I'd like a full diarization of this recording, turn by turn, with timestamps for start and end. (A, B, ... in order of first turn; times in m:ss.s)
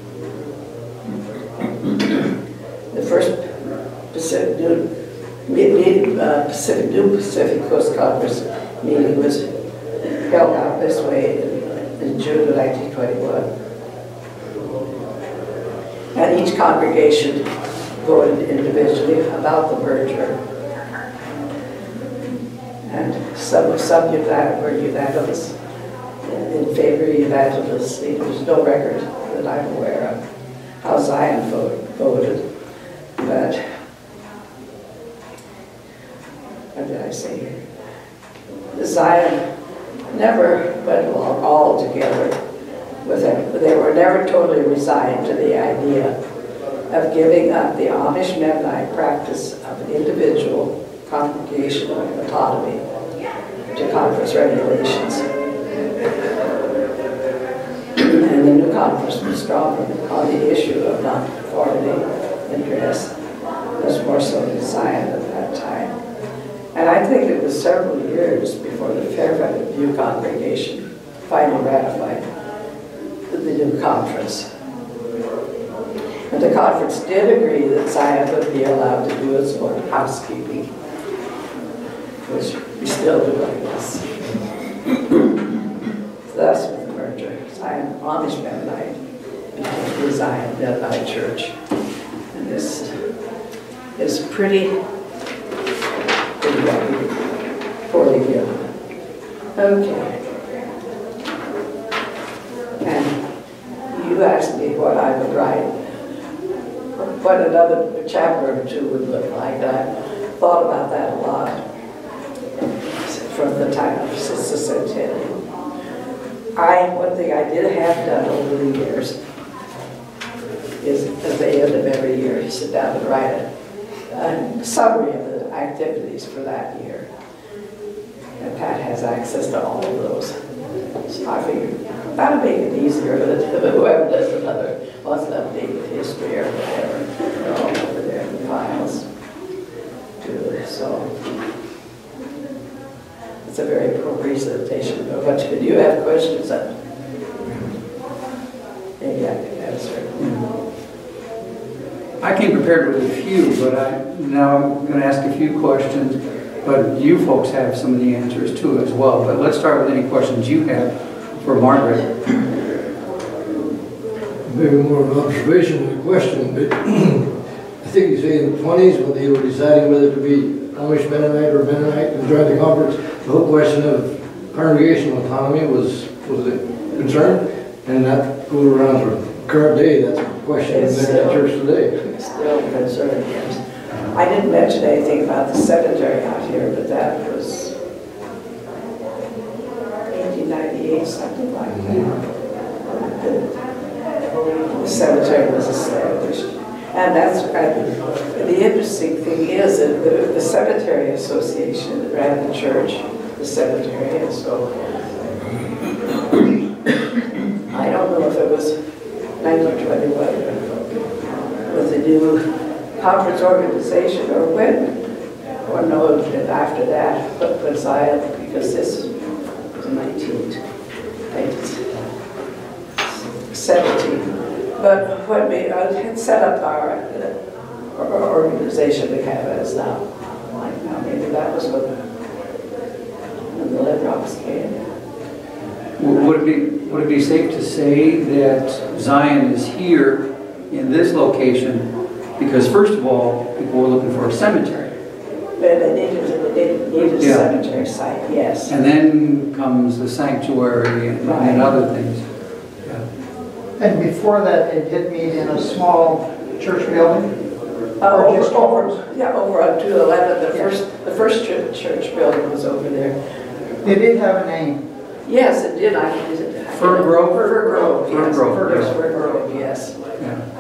0:02.9-0:03.6 A
0:04.1-0:04.9 A
0:05.5-0:09.5 A
0:10.3-0:13.5 A
0:16.1-0:17.5 A
0:18.0-0:20.4 A
0:22.8-0:25.6 A
0:26.2-0:30.2 A
0:30.8-0:32.4 A
0:33.2-0:33.6 A
0:36.8-0:37.5 A
0:38.7-0:39.4 A
0:40.1-0:42.4 A
0:43.0-0:46.1 A
0:46.9-0:52.8 A
0:53.8-0:55.2 A
0:58.0-1:03.1 A
1:03.8-1:06.0 A
1:06.7-1:12.2 A
1:13.3-1:14.5 A
1:16.3-1:20.7 A
1:22.3-1:24.3 A
1:26.3-1:29.0 A
1:29.6-1:31.6 A
1:32.3-1:32.9 A
1:34.0-1:34.7 A
1:36.4-1:37.3 A
1:37.9-1:38.7 A
1:39.6-1:40.2 A
1:42.8-1:43.2 A
1:43.9-1:45.7 A
1:47.0-1:51.6 A
1:52.6-1:55.4 A
1:56.6-1:59.2 A
2:00.8-2:03.5 A
2:04.1-2:07.1 A
2:08.4-2:10.4 A
2:11.1-2:19.1 A
2:20.2-2:21.1 A
2:23.5-2:26.7 A
2:29.0-2:30.3 A
2:32.2-2:42.2 B
2:44.5-2:47.3 C
2:47.8-3:02.1 C
3:00.6-3:01.4 A
3:02.2-3:03.6 A
3:04.1-3:07.8 A
3:10.1-3:12.2 A
3:12.8-3:13.5 A
3:14.7-3:24.7 A
3:27.7-3:28.8 A
3:29.4-3:30.7 A
3:31.7-3:32.4 A
3:33.0-3:35.0 A
3:35.6-3:39.2 A
3:39.7-3:40.6 A
3:41.3-3:41.9 A
3:43.4-3:47.4 A
3:47.9-3:51.9 A
3:53.5-3:54.8 A
3:56.0-4:01.9 B
4:02.4-4:04.9 B
4:05.6-4:08.7 A
4:07.2-4:07.5 B
4:08.7-4:12.2 B
4:11.2-4:11.8 A
4:13.8-4:17.3 D
4:18.0-4:23.2 A
4:18.1-4:19.0 D
4:23.8-4:24.8 D
4:25.3-4:29.9 A
4:26.7-4:29.0 B
4:27.3-4:29.1 D